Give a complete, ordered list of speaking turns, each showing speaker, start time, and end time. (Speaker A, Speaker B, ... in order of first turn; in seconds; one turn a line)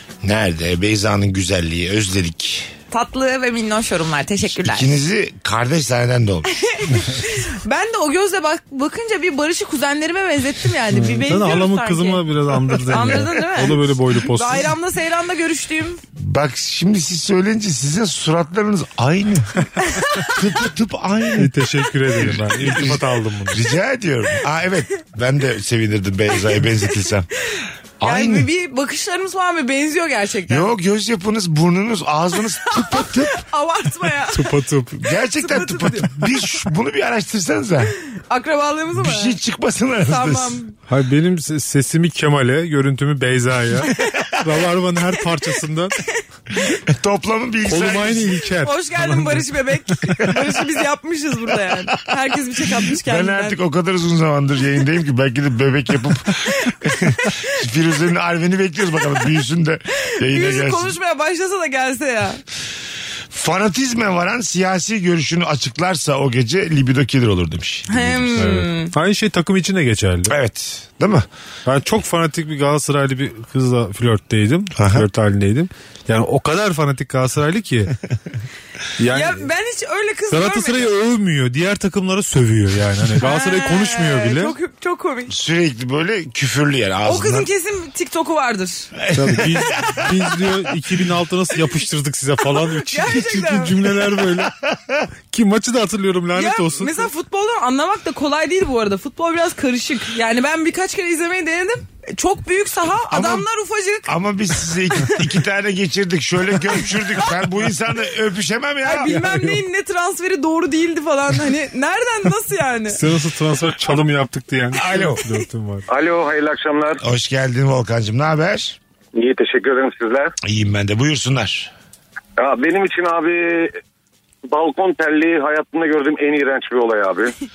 Speaker A: 0.2-2.7
Speaker B: 2.9-5.0
Speaker A: 4.5-6.5
Speaker B: 6.6-12.2
Speaker C: 10.9-14.7
Speaker B: 12.9-16.0
Speaker A: 16.2-19.6
Speaker B: 19.9-20.3
Speaker A: 20.2-21.5
Speaker C: 21.4-23.6
Speaker A: 22.2-27.3
Speaker A: 28.0-28.5
Speaker B: 28.0-30.7
Speaker A: 30.5-33.4
Speaker B: 32.6-34.5
Speaker C: 34.3-35.0
Speaker A: 35.0-37.9
Speaker B: 35.1-36.2
Speaker B: 38.3-39.4
Speaker A: 39.0-40.6
Speaker B: 40.1-40.7
Speaker C: 40.9-46.0
Speaker A: 46.9-48.4
Speaker C: 47.6-49.5
Speaker B: 48.6-53.6
Speaker A: 52.9-61.0
Speaker B: 60.2-62.4
Speaker A: 63.3-68.4
Speaker B: 67.9-68.9
Speaker C: 68.4-70.3
Speaker A: 70.3-71.3
Speaker C: 71.7-77.9
Speaker A: 74.8-75.1
Speaker C: 79.0-79.5
Speaker B: 79.1-80.9
Speaker C: 80.3-84.6
Speaker B: 83.2-85.3
Speaker A: 85.3-87.5
Speaker B: 87.0-88.9
Speaker A: 89.0-90.6
Speaker C: 89.1-94.5
Speaker B: 92.8-93.8
Speaker A: 94.4-95.0
Speaker C: 95.3-97.1
Speaker B: 96.3-104.2
Speaker A: 103.1-103.5
Speaker A: 104.1-109.1
Speaker B: 104.9-105.2
Speaker B: 108.8-113.0
Speaker C: 109.1-109.6
Speaker C: 112.9-115.8
Speaker A: 114.7-115.2
Speaker D: 115.9-117.0
Speaker A: 117.0-118.8
Speaker D: 119.2-120.3
Speaker A: 120.4-121.7
Speaker D: 122.4-123.8
Speaker D: 124.5-127.3